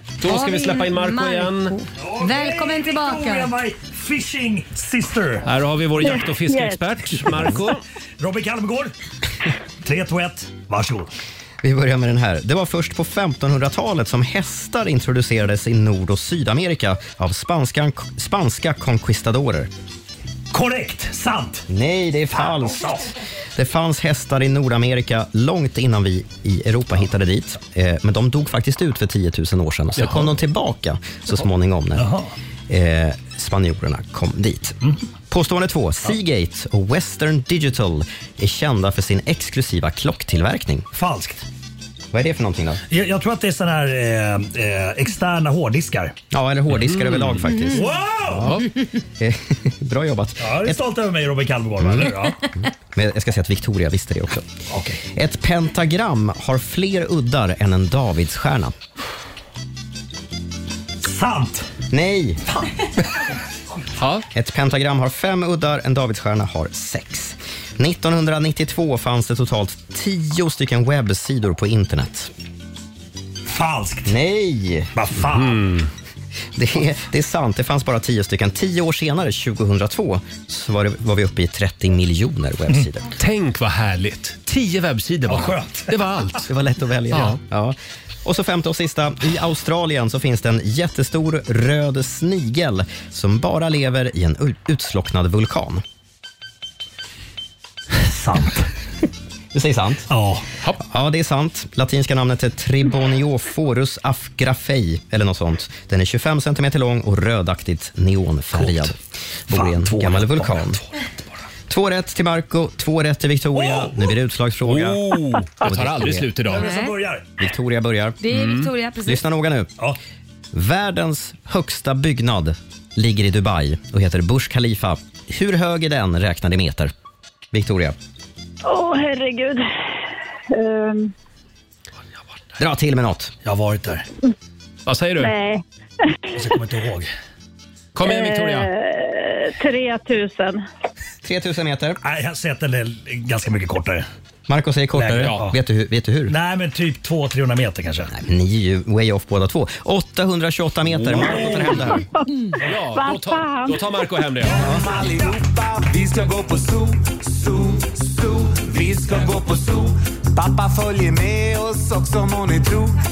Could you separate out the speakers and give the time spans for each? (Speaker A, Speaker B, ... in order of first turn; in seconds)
Speaker A: 0.2-1.8, 5.4-7.8, 30.0-30.3, 46.7-47.5, 48.4-48.7, 64.0-64.3, 75.2-75.9, 83.2-86.5, 87.1-87.4, 114.6-116.7, 118.3-118.7, 134.9-135.3, 137.9-138.7, 145.2-145.5, 152.6-154.7
Speaker B: 0.2-3.5, 47.5-47.8, 116.5-117.0, 118.2-119.2
Speaker C: 2.0-5.5, 8.2-8.9, 9.8-11.1, 20.5-21.7, 22.3-23.1, 32.0-32.3, 40.9-41.5, 42.9-46.2, 47.7-48.5, 50.4-52.4, 54.7-55.0, 61.0-61.7, 73.5-74.1, 74.9-75.6, 85.3-85.9, 97.9-98.7, 100.1-100.4, 108.5-108.9, 109.5-111.1, 113.5-114.0, 116.5-117.3, 133.4-134.1, 136.3-137.1, 142.0-144.1, 144.9-145.6, 146.3-148.1, 150.9-152.0
Speaker D: 6.0-7.0, 128.7-131.1, 135.2-136.1, 138.0-140.6, 152.9-154.1
Speaker E: 11.6-19.7, 21.7-23.0, 23.6-32.1, 32.7-34.8, 35.3-40.9, 42.1-42.8, 46.3-48.6, 49.2-50.8, 51.8-52.1, 52.9-54.5, 55.1-58.7, 61.9-62.4, 64.3-72.3, 74.1-74.9, 76.6-83.1, 86.5-95.8, 99.5-100.1, 100.8-109.0, 109.5-110.8, 111.7-115.0, 115.6-116.3, 117.4-118.2, 119.1-119.7, 120.5-126.9, 127.5-128.0, 132.6-133.3, 141.2-142.0, 144.5-146.3, 148.1-152.1
Speaker F: 154.6-163.0